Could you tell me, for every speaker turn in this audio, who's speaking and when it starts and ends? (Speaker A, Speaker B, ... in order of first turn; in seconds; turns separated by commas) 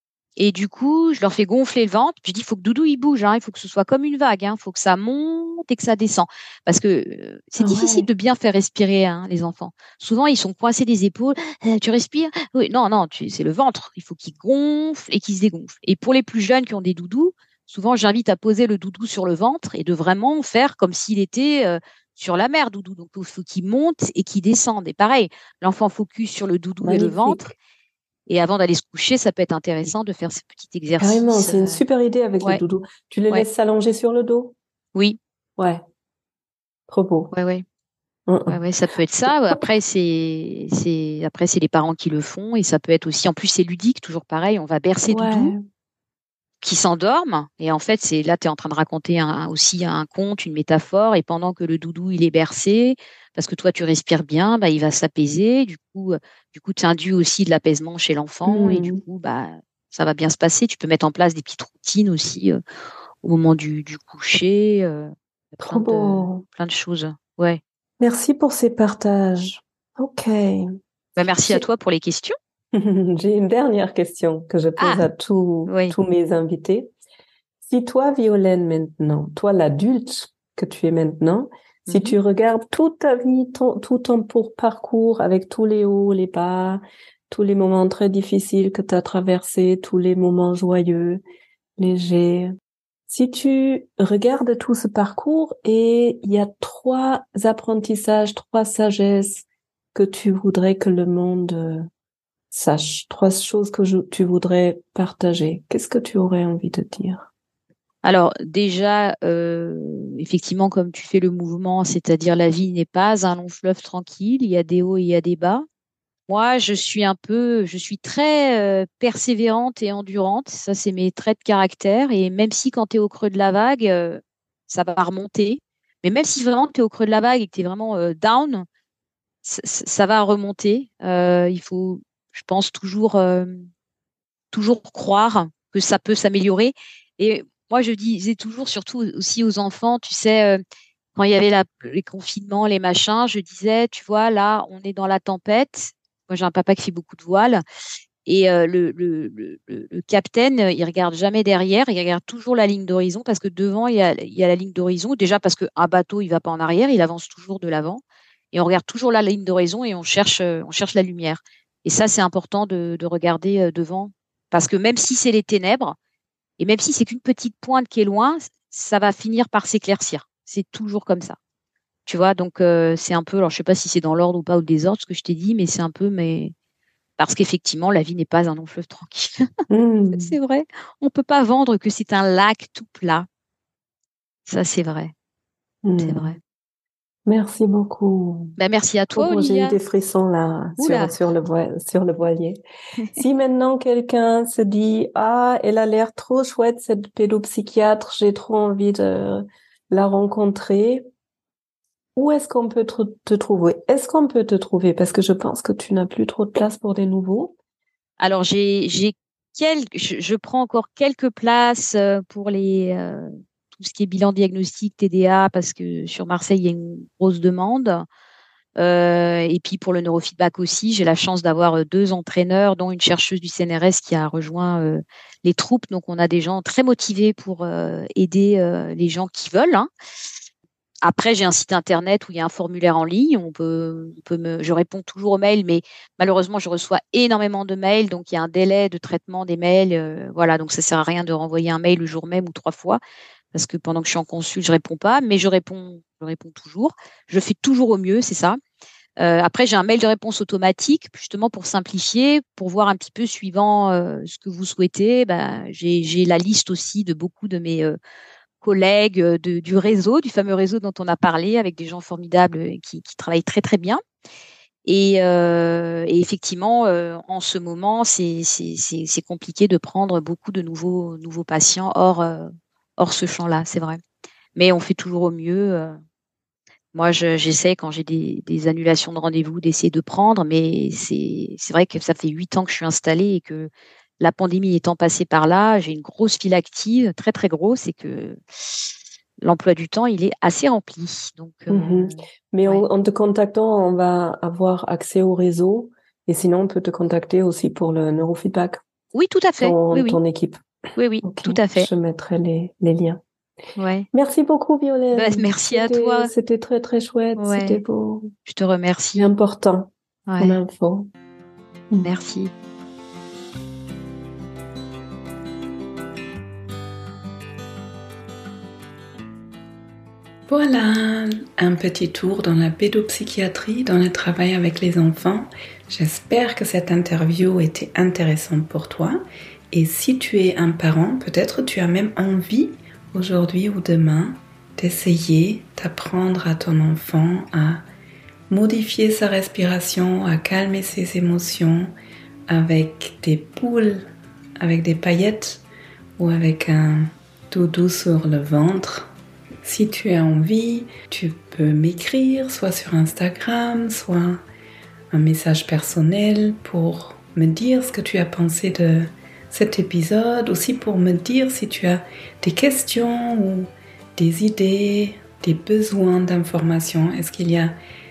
Speaker A: 0.4-27.5, Speaker B: 7.6-8.1, Speaker B: 26.8-27.5, Speaker A: 28.3-31.8, Speaker B: 31.0-34.5, Speaker B: 35.6-35.8, Speaker B: 36.9-37.3, Speaker A: 37.3-37.6, Speaker B: 38.3-38.6, Speaker A: 38.5-45.5, Speaker B: 39.3-39.6, Speaker B: 45.1-45.6, Speaker A: 46.6-62.6, Speaker B: 58.5-59.0, Speaker A: 63.2-67.6, Speaker B: 65.6-66.4, Speaker B: 68.0-70.8, Speaker A: 71.2-72.3, Speaker B: 72.7-76.9, Speaker A: 74.8-75.0, Speaker A: 75.7-76.0, Speaker B: 77.6-91.2, Speaker A: 81.9-82.2, Speaker B: 91.8-92.5, Speaker B: 93.1-101.9, Speaker B: 102.5-107.3, Speaker A: 108.0-115.7, Speaker A: 116.3-128.7, Speaker A: 129.4-133.7, Speaker A: 134.5-140.6, Speaker A: 141.2-147.6, Speaker A: 148.2-166.0, Speaker A: 166.6-171.4, Speaker A: 172.1-176.5, Speaker A: 177.2-179.4, Speaker B: 179.7-180.4, Speaker A: 180.1-183.3, Speaker A: 184.5-185.1, Speaker B: 185.8-186.3, Speaker A: 186.0-186.4, Speaker B: 187.3-188.6, Speaker A: 188.6-189.8, Speaker B: 189.1-192.6, Speaker A: 190.8-191.1, Speaker B: 193.2-201.1, Speaker B: 202.2-207.5, Speaker A: 208.2-218.1, Speaker A: 218.8-229.9, Speaker A: 231.0-243.0, Speaker A: 243.5-248.6, Speaker A: 249.2-258.0, Speaker A: 258.6-264.0, Speaker A: 264.9-274.0, Speaker A: 274.6-276.0, Speaker A: 276.9-288.9, Speaker A: 289.4-292.9, Speaker B: 291.7-298.8, Speaker A: 299.1-300.2, Speaker B: 299.6-300.6, Speaker A: 301.0-301.9, Speaker B: 301.2-303.2, Speaker A: 303.8-304.1, Speaker B: 304.1-308.3, Speaker A: 305.1-306.3, Speaker A: 307.4-307.8, Speaker A: 308.5-309.3, Speaker B: 309.1-311.1, Speaker A: 310.3-310.6, Speaker A: 312.0-312.5, Speaker C: 320.5-337.8, Speaker C: 338.5-341.9, Speaker C: 342.5-344.1, Speaker C: 344.6-345.6, Speaker C: 346.2-349.1, Speaker C: 349.6-354.4, Speaker C: 355.1-367.8